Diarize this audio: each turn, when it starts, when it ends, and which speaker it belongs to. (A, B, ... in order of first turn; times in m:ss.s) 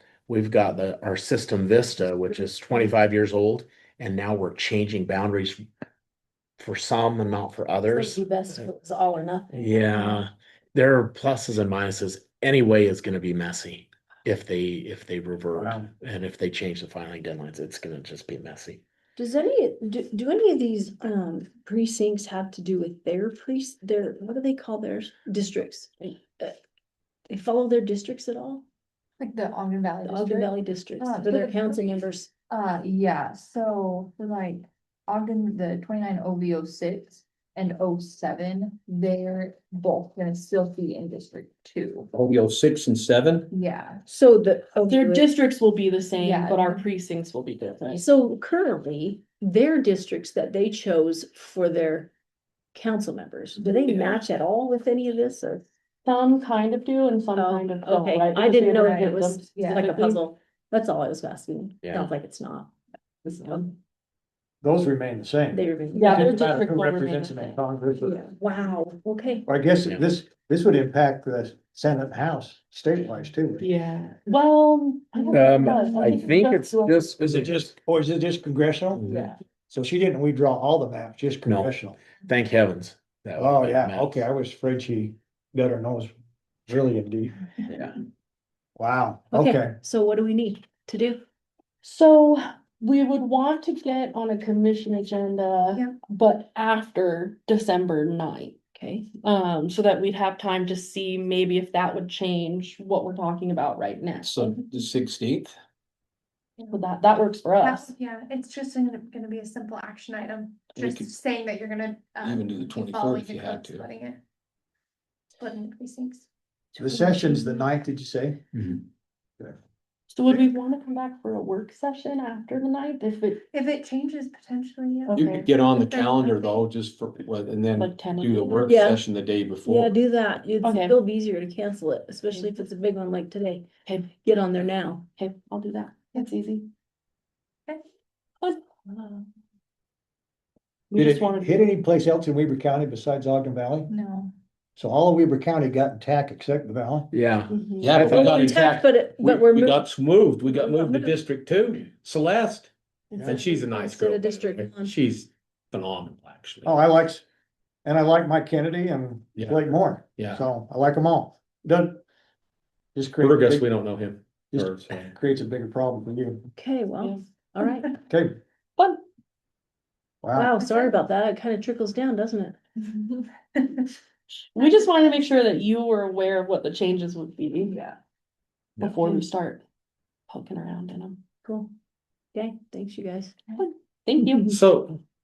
0:00.3-0:05.6 A
0:02.3-0:02.9 B
0:06.6-0:08.2 A
0:07.9-0:10.2 B
0:09.5-0:18.8 A
0:15.6-0:15.9 C
0:19.2-0:26.6 B
0:27.3-0:28.6 B
0:29.2-0:31.8 D
0:30.0-0:32.3 B
0:32.5-0:42.1 D
0:42.1-0:43.5 E
0:43.5-0:44.0 D
0:44.1-0:45.3 B
0:44.9-0:48.0 F
0:46.2-0:46.8 D
0:47.9-0:52.1 B
0:52.7-0:55.7 B
0:53.6-0:54.2 F
0:56.0-1:00.2 F
0:57.4-1:02.7 B
0:59.6-1:00.0 D
1:01.8-1:02.1 A
1:04.6-1:08.3 C
1:05.5-1:06.3 B
1:06.0-1:07.6 F
1:08.0-1:09.5 B
1:09.5-1:13.7 C
1:13.6-1:16.2 F
1:15.2-1:17.1 D
1:15.3-1:17.7 A
1:17.2-1:19.0 C
1:19.7-1:22.0 C
1:21.5-1:21.8 A
1:22.3-1:24.2 A
1:23.4-1:26.1 C
1:26.7-1:27.5 C
1:28.8-1:29.8 C
1:29.3-1:31.2 B
1:31.8-1:38.6 F
1:38.8-1:39.1 B
1:39.2-1:44.5 F
1:44.2-1:45.5 E
1:46.7-1:47.9 F
1:47.6-1:54.2 G
1:50.7-1:51.2 E
1:52.2-1:53.9 E
1:55.4-1:56.3 G
1:56.8-1:58.4 C
1:56.9-1:57.6 F
2:00.1-2:03.4 F
2:03.5-2:06.7 G
2:05.1-2:05.5 F
2:05.1-2:09.9 E
2:07.8-2:08.8 F
2:08.7-2:09.0 B
2:09.6-2:13.7 B
2:10.6-2:11.0 F
2:13.8-2:14.1 F
2:14.2-2:15.1 B
2:15.2-2:16.7 F
2:18.4-2:19.2 F
2:20.9-2:21.6 F
2:20.9-2:23.9 C
2:23.9-2:24.3 D
2:24.8-2:27.1 C
2:27.1-2:28.4 A
2:27.5-2:27.9 F
2:27.8-2:36.7 E
2:28.1-2:29.9 B
2:30.5-2:31.1 B
2:33.2-2:35.0 B
2:36.6-2:37.2 C
2:37.8-2:42.0 C
2:39.4-2:39.6 E
2:40.2-2:40.4 E
2:43.0-2:43.7 C
2:43.2-2:45.1 E
2:44.5-2:46.5 C
2:46.6-2:47.9 B
2:48.1-2:48.4 C
2:48.8-2:49.0 F
2:50.2-2:50.5 C
2:50.3-2:52.6 B
2:52.9-2:53.2 D
2:54.5-2:57.8 F
2:58.8-2:59.1 E
2:58.8-2:59.6 F
3:00.3-3:01.2 F
3:01.4-3:01.7 B
3:02.3-3:03.5 B
3:03.6-3:04.6 F
3:04.5-3:05.0 E